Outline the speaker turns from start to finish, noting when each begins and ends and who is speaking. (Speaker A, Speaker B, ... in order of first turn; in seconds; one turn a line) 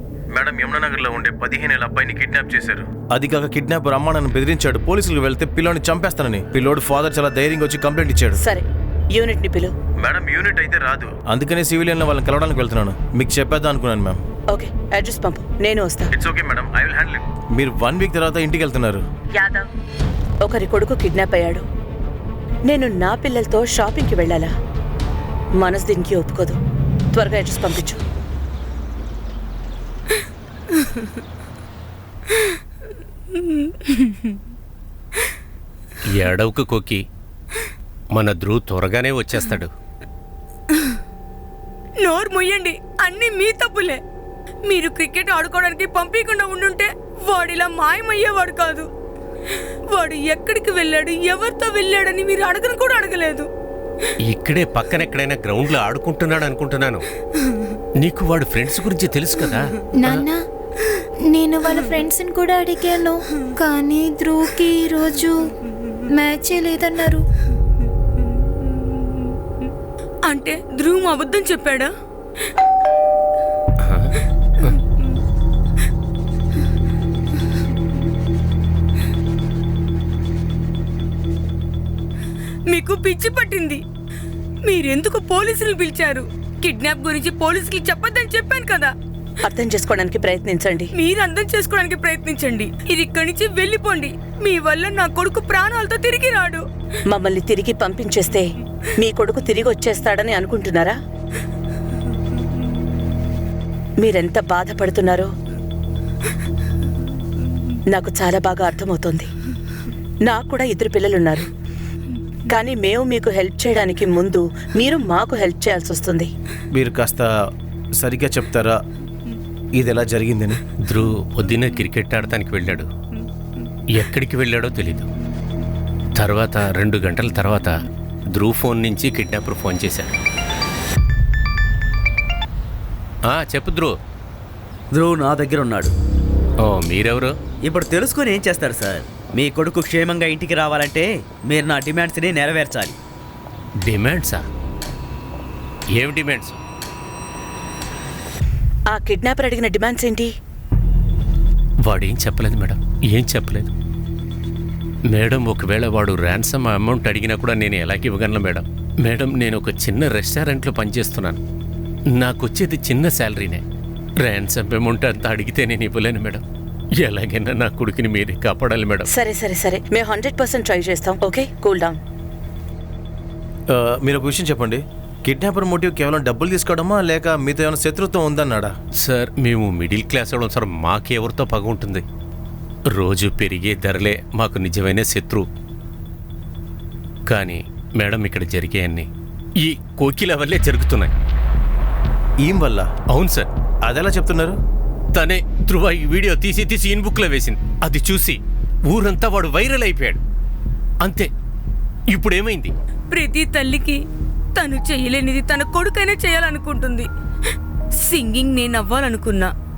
Speaker A: 0.3-8.4
Speaker B: 8.4-9.7
Speaker A: 10.0-14.2
Speaker B: 14.5-16.1
Speaker A: 16.1-19.0
Speaker B: 19.4-19.7
Speaker B: 20.4-21.6
Speaker B: 22.7-24.5
Speaker B: 25.6-26.6
Speaker B: 27.1-28.0
Speaker C: 33.3-34.2
Speaker D: 36.1-37.0
Speaker D: 38.1-39.7
Speaker C: 42.0-44.0
Speaker C: 44.7-48.9
Speaker C: 49.9-53.5
Speaker D: 54.2-57.0
Speaker D: 58.0-60.2
Speaker E: 60.0-60.4
Speaker E: 61.3-65.5
Speaker E: 66.1-67.2
Speaker C: 70.3-71.9
Speaker D: 73.8-74.1
Speaker C: 82.7-83.8
Speaker C: 84.7-88.9
Speaker B: 89.4-90.9
Speaker C: 91.0-96.6
Speaker B: 97.1-101.0
Speaker B: 104.0-105.3
Speaker B: 107.9-109.3
Speaker B: 110.2-111.5
Speaker B: 112.5-116.3
Speaker A: 116.7-117.3
Speaker A: 118.0-118.8
Speaker A: 119.8-120.6
Speaker D: 120.8-122.9
Speaker D: 123.9-125.1
Speaker D: 126.2-127.8
Speaker D: 128.3-130.1
Speaker D: 133.3-133.9
Speaker F: 134.9-135.9
Speaker D: 136.6-137.3
Speaker F: 137.7-142.9
Speaker D: 143.8-144.4
Speaker D: 145.9-146.6
Speaker B: 148.9-150.3
Speaker D: 151.8-153.7
Speaker D: 155.1-161.4
Speaker D: 162.1-163.6
Speaker D: 164.2-166.4
Speaker D: 167.0-169.1
Speaker B: 169.1-172.0
Speaker A: 173.7-178.7
Speaker D: 179.0-182.0
Speaker D: 182.9-185.4
Speaker D: 187.3-189.1
Speaker D: 189.6-191.1
Speaker A: 192.4-193.0
Speaker D: 193.1-193.5
Speaker A: 193.8-194.6
Speaker D: 195.1-200.2
Speaker D: 201.0-201.3
Speaker D: 202.1-202.7
Speaker C: 203.1-204.0
Speaker C: 204.6-207.1
Speaker C: 208.0-209.5